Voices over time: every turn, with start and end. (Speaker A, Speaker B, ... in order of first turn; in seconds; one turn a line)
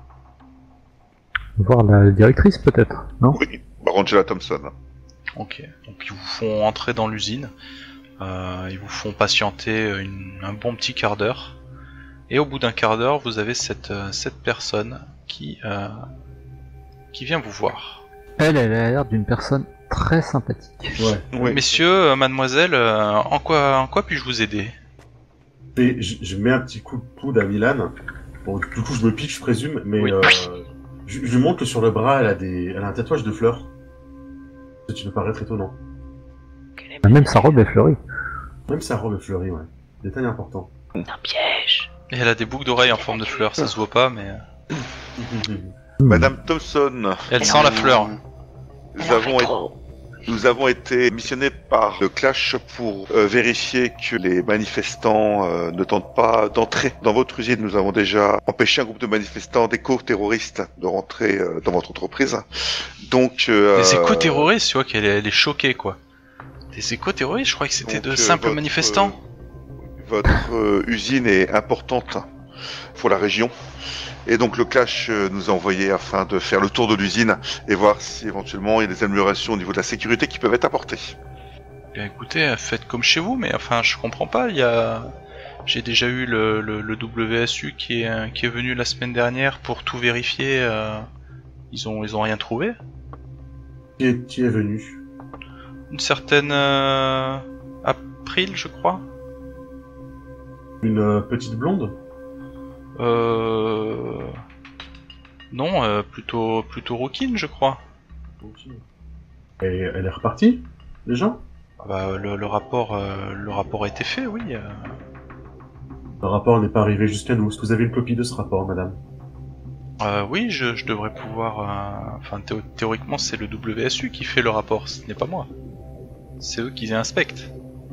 Speaker A: 1.6-3.4
Speaker B: 3.3-4.7
Speaker C: 5.4-7.5
Speaker C: 8.2-11.6
Speaker C: 12.3-16.0
Speaker C: 17.1-18.0
Speaker A: 18.4-21.0
Speaker D: 21.0-21.3
Speaker B: 21.3-21.7
Speaker C: 21.4-24.7
Speaker D: 25.7-27.9
Speaker D: 28.4-33.7
Speaker D: 34.9-35.7
Speaker E: 36.8-37.7
Speaker A: 37.0-38.0
Speaker D: 38.7-40.7
Speaker E: 41.0-41.9
Speaker C: 42.1-44.4
Speaker D: 45.2-45.7
Speaker A: 46.0-46.3
Speaker B: 46.1-48.2
Speaker C: 47.3-48.2
Speaker B: 48.9-49.5
Speaker E: 49.0-49.8
Speaker B: 50.2-64.5
Speaker C: 63.7-66.0
Speaker C: 66.7-69.2
Speaker B: 67.8-69.2
Speaker B: 70.0-72.3
Speaker B: 72.9-73.5
Speaker B: 74.2-81.2
Speaker C: 81.9-85.1
Speaker C: 85.7-91.0
Speaker C: 91.7-92.8
Speaker D: 94.0-95.0
Speaker C: 95.9-99.0
Speaker D: 100.8-102.0
Speaker C: 103.0-104.4
Speaker C: 105.5-107.8
Speaker D: 108.4-108.8
Speaker D: 109.6-111.4
Speaker C: 111.8-115.0
Speaker D: 116.2-119.0
Speaker C: 120.0-125.5
Speaker C: 126.4-127.5